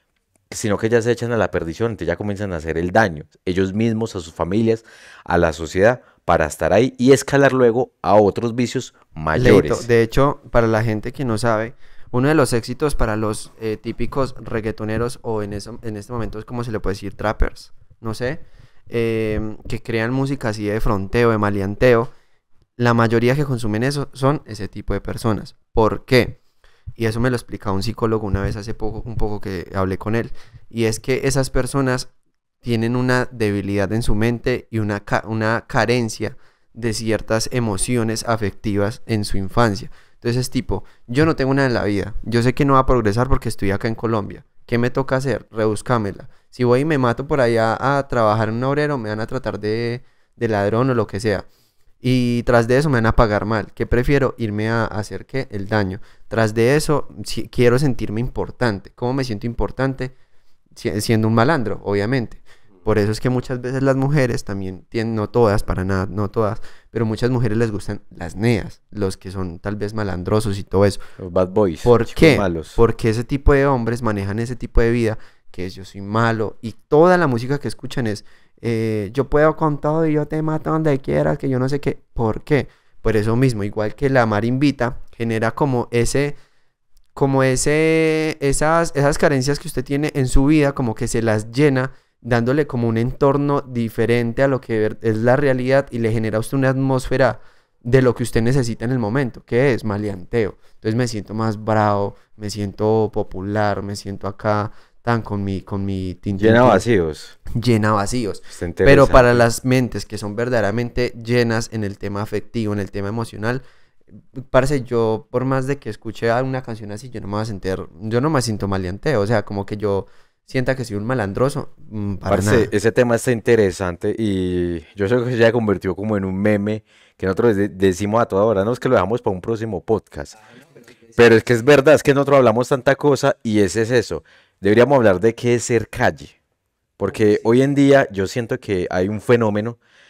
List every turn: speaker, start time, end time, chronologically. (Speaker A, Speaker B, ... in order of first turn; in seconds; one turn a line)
Speaker A: 0.5-9.9
Speaker B: 9.3-22.1
Speaker B: 22.8-26.4
Speaker B: 27.0-32.1
Speaker B: 32.6-51.5
Speaker B: 52.0-60.1
Speaker B: 60.7-71.0
Speaker A: 71.2-72.8
Speaker B: 71.8-86.4
Speaker B: 87.1-106.8
Speaker A: 106.3-107.3
Speaker B: 107.5-113.6
Speaker A: 108.5-109.4
Speaker B: 114.3-122.7
Speaker A: 122.3-130.3
Speaker A: 131.1-136.3
Speaker A: 137.0-139.8